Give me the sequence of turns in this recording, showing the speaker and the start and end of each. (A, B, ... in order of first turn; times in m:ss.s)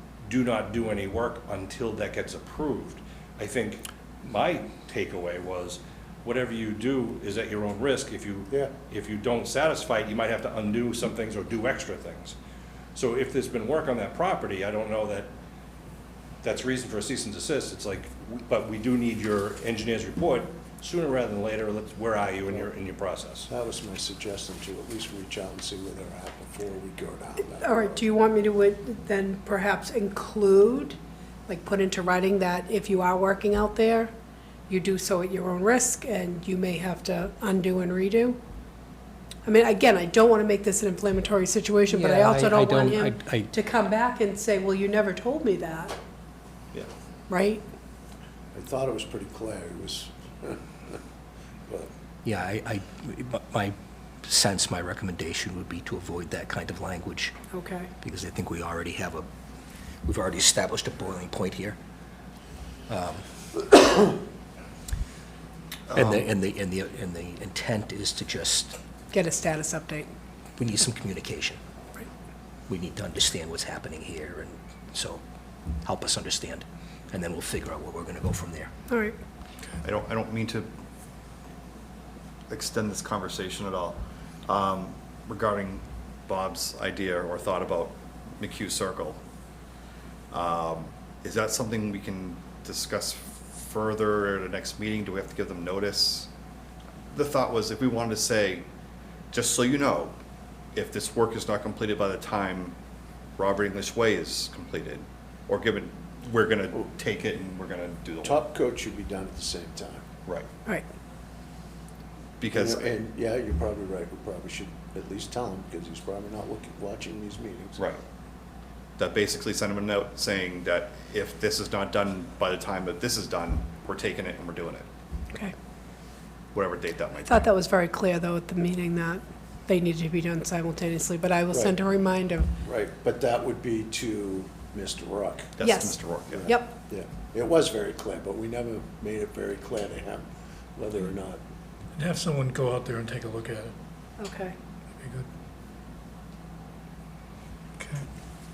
0:00.2-0:12.4 A
0:13.0-0:15.3 A
0:16.4-0:23.5 A
0:23.5-0:28.0 B
0:27.6-0:34.1 C
0:34.7-0:38.4 C
0:39.4-0:46.0 C
0:41.9-0:43.5 D
0:47.3-0:47.6 C
0:48.5-0:51.0 B
0:52.2-0:57.4 D
0:57.5-0:57.9 C
0:58.0-0:59.3 D
1:00.1-1:01.8 D
1:02.9-1:03.2 D
1:05.9-1:06.3 E
1:05.9-1:08.8 D
1:09.1-1:10.1 C
1:10.6-1:11.6 D
1:12.7-1:15.2 D
1:15.8-1:18.7 D
1:18.9-1:19.2 C
1:19.8-1:20.7 E
1:22.5-1:29.2 E
1:30.3-1:36.3 E
1:37.1-1:38.7 E
1:39.3-1:40.2 E
1:40.8-1:42.8 E
1:43.4-1:48.4 E
1:48.2-1:50.1 B
1:52.4-1:52.9 E
1:52.5-1:57.9 B
1:59.0-2:04.9 E
2:06.5-2:07.4 E
2:07.2-2:12.5 C
2:12.6-2:15.6 B
2:15.6-2:16.5 E
2:15.6-2:16.8 C
2:16.3-2:21.4 B
2:22.0-2:23.7 F
2:24.2-2:24.5 C
2:25.0-2:25.3 F
2:27.8-2:28.1 F